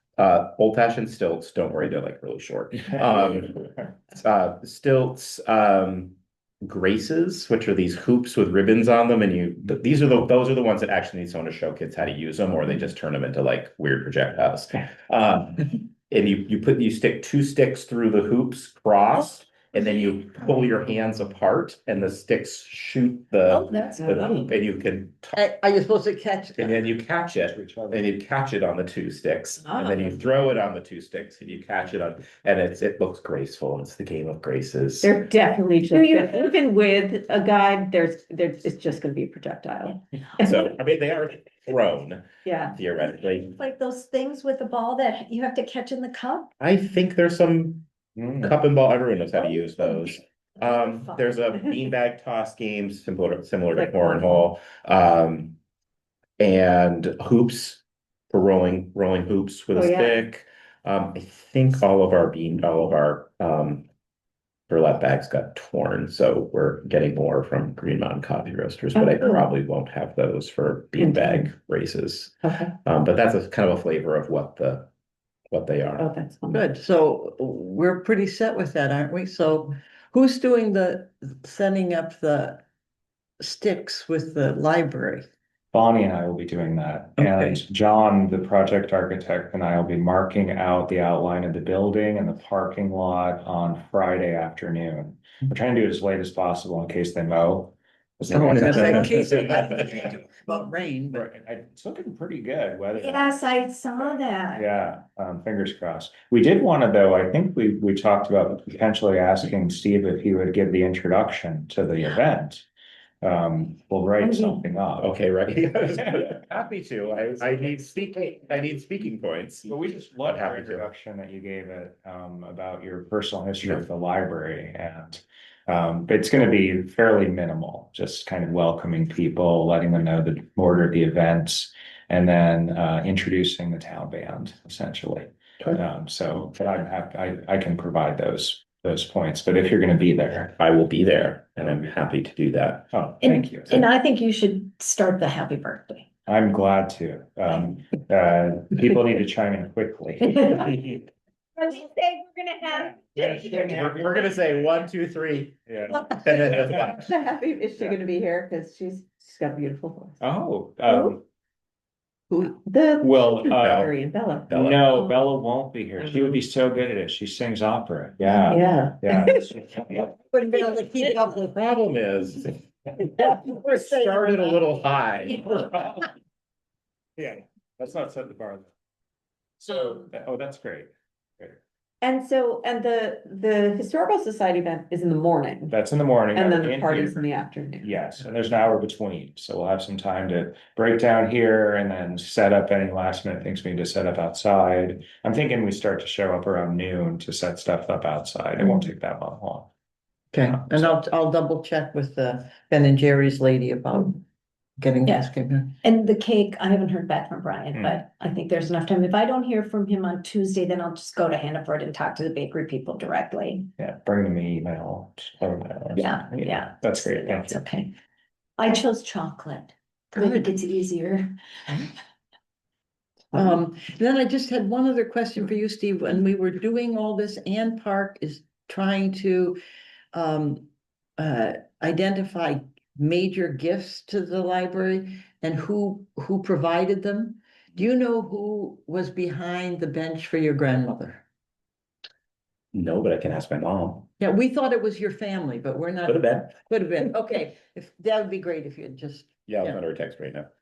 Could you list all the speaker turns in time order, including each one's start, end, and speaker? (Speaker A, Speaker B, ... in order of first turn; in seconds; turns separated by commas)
Speaker A: 0.2-25.4, Speaker B: 3.0-3.9, Speaker C: 23.5-24.4, Speaker D: 25.3-26.8, Speaker A: 26.6-35.1, Speaker B: 27.4-28.1, Speaker E: 35.0-40.6, Speaker C: 35.9-36.5, Speaker A: 40.4-43.5, Speaker E: 42.5-42.8, Speaker C: 43.5-46.5, Speaker A: 46.6-47.9, Speaker B: 48.2-48.5, Speaker A: 48.4-55.6, Speaker C: 49.5-50.0, Speaker C: 50.6-51.3, Speaker E: 53.7-54.4, Speaker A: 56.4-63.9, Speaker E: 59.7-60.2, Speaker A: 64.7-74.9, Speaker E: 68.9-69.5, Speaker E: 71.0-71.5, Speaker E: 72.4-72.7, Speaker A: 75.5-76.1, Speaker E: 76.0-76.7, Speaker D: 76.5-82.6, Speaker D: 83.4-85.3, Speaker B: 85.7-99.1, Speaker D: 87.2-87.6, Speaker D: 98.3-101.2, Speaker A: 98.3-99.0, Speaker B: 101.1-103.4, Speaker C: 103.0-104.7, Speaker B: 104.5-112.6, Speaker B: 113.2-115.2, Speaker A: 115.0-119.7, Speaker B: 116.0-116.3, Speaker B: 119.7-140.5, Speaker A: 120.2-120.8, Speaker A: 140.6-142.9, Speaker B: 142.9-143.8, Speaker C: 143.2-146.1, Speaker B: 146.3-151.0, Speaker C: 151.6-153.7, Speaker B: 152.9-154.2, Speaker A: 153.2-155.5, Speaker B: 155.7-156.9, Speaker A: 156.1-157.1, Speaker E: 157.0-160.2, Speaker B: 160.2-161.2, Speaker E: 162.4-164.5, Speaker B: 163.0-163.9, Speaker A: 163.6-163.9, Speaker A: 164.5-164.8, Speaker B: 164.5-170.1, Speaker E: 168.4-169.5, Speaker D: 169.9-171.4, Speaker A: 171.0-172.6, Speaker D: 173.1-174.7, Speaker A: 173.3-175.8, Speaker B: 177.2-178.7, Speaker B: 179.6-181.6, Speaker E: 182.0-185.8, Speaker B: 185.7-187.2, Speaker E: 186.3-187.9, Speaker B: 187.8-199.7, Speaker D: 200.3-204.2, Speaker B: 200.4-200.9, Speaker D: 204.8-205.8, Speaker C: 205.8-213.7, Speaker B: 207.7-208.0, Speaker B: 213.8-217.6, Speaker C: 215.9-217.9, Speaker C: 218.6-221.3, Speaker D: 220.2-220.5, Speaker D: 223.3-229.6, Speaker D: 230.1-230.7, Speaker D: 231.2-241.2, Speaker A: 242.7-244.1, Speaker D: 244.2-249.8, Speaker A: 246.0-246.5, Speaker A: 249.5-250.5